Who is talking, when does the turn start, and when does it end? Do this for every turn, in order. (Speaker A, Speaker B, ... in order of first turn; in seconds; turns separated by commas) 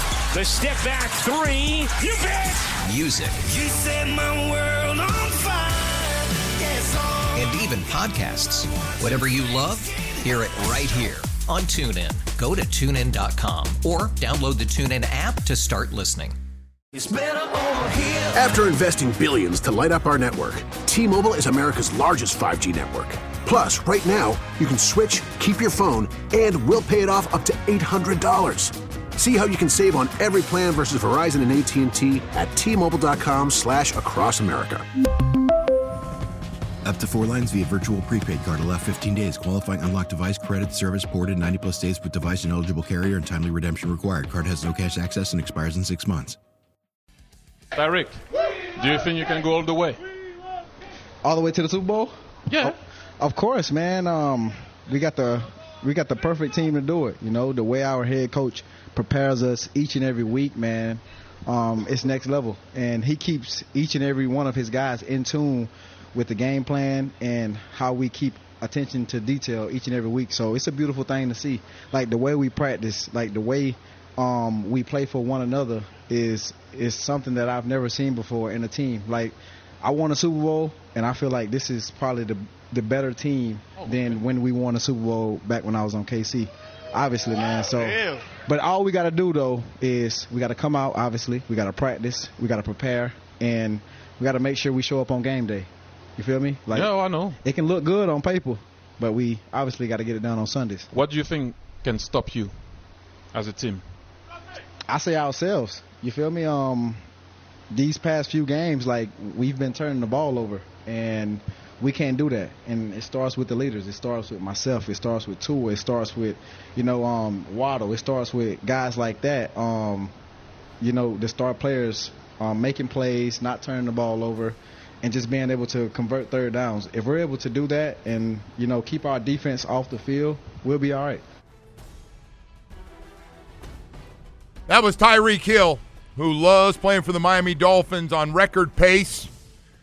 Speaker A: 0.3-2.6, Speaker B: 2.8-3.4, Speaker C: 3.4-7.4, Speaker B: 7.3-16.4, Speaker C: 16.9-18.5, Speaker D: 18.3-34.9, Speaker E: 36.8-46.4, Speaker F: 47.7-48.2, Speaker F: 48.7-50.0, Speaker G: 51.2-100.9, Speaker F: 52.5-52.8, Speaker F: 83.8-84.1, Speaker F: 96.7-97.4, Speaker F: 100.9-102.5, Speaker F: 103.3-103.8, Speaker G: 104.9-107.0, Speaker G: 107.7-120.1, Speaker G: 120.8-131.2, Speaker H: 134.7-139.3